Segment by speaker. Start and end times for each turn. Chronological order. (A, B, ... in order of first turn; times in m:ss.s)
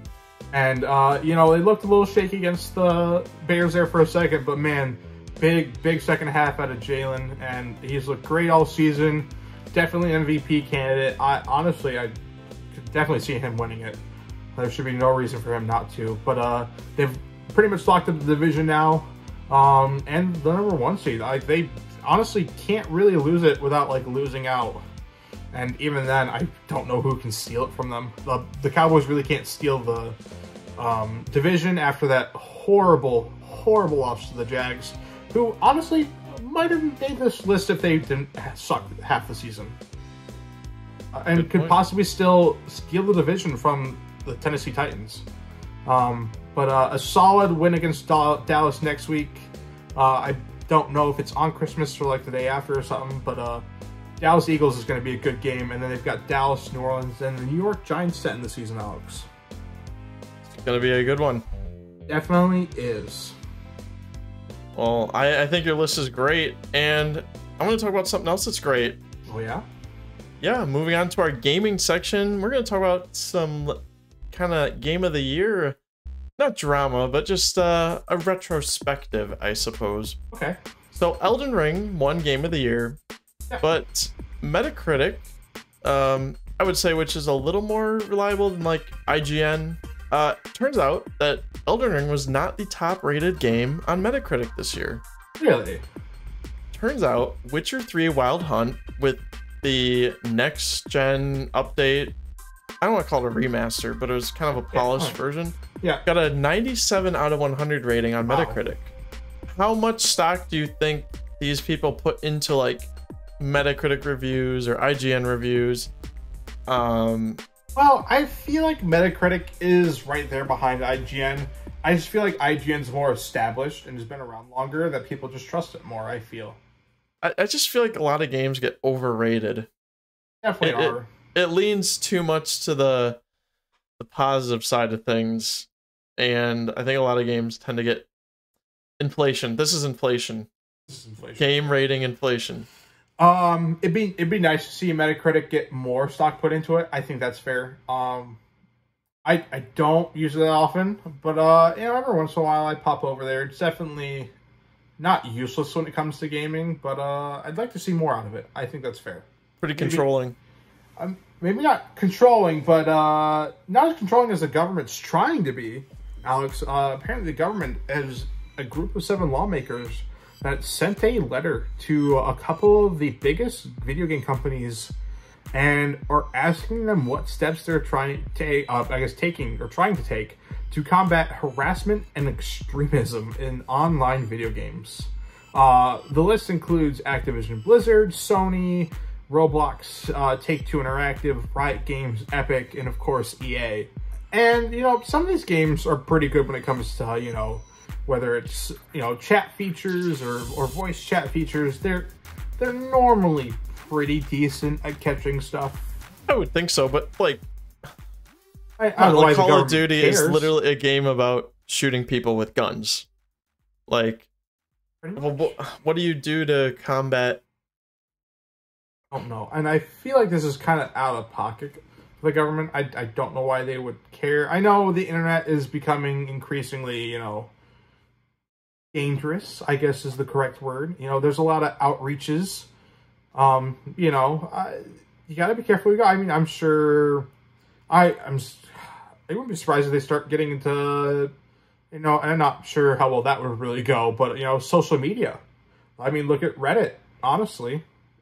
0:00.5-0:12.1 A
0:12.7-0:14.0 A
0:14.6-0:24.8 A
0:25.5-0:30.2 A
0:30.8-0:39.8 A
0:41.1-0:45.2 A
0:41.3-0:41.8 B
0:45.8-0:53.6 A
0:54.2-0:59.3 A
1:00.4-1:01.4 B
1:02.1-1:03.4 A
1:04.8-1:09.0 B
1:09.3-1:09.6 A
1:10.4-1:13.8 B
1:14.3-1:15.8 B
1:16.4-1:20.2 B
1:20.3-1:20.6 A
1:20.9-1:23.0 B
1:23.6-1:25.3 B
1:25.8-1:35.0 B
1:35.4-1:35.8 A
1:36.7-1:42.1 B
1:42.8-1:48.9 B
1:44.7-1:45.2 A
1:48.2-1:48.7 A
1:49.5-1:55.9 B
1:56.7-1:57.4 B
1:57.7-2:06.6 A
2:07.2-2:09.7 B
2:10.4-2:11.1 A
2:10.6-2:13.2 B
2:14.0-2:15.7 B
2:16.2-2:18.1 B
2:19.0-2:20.5 B
2:20.9-2:21.6 A
2:21.4-2:22.7 B
2:23.2-2:28.4 A
2:29.2-2:34.3 A
2:35.0-2:40.0 A
2:39.6-2:40.4 B
2:41.0-2:54.9 A
2:55.5-3:25.8 A
3:26.3-3:27.4 B
3:28.8-3:30.5 A
3:29.0-3:33.1 B
3:33.9-3:34.3 B
3:35.0-3:35.5 A
3:35.2-3:37.4 B
3:39.1-3:47.5 A
3:48.9-3:52.7 A
3:53.3-3:57.3 A
3:57.9-4:01.3 A
4:01.9-4:05.4 A
4:06.0-4:07.8 A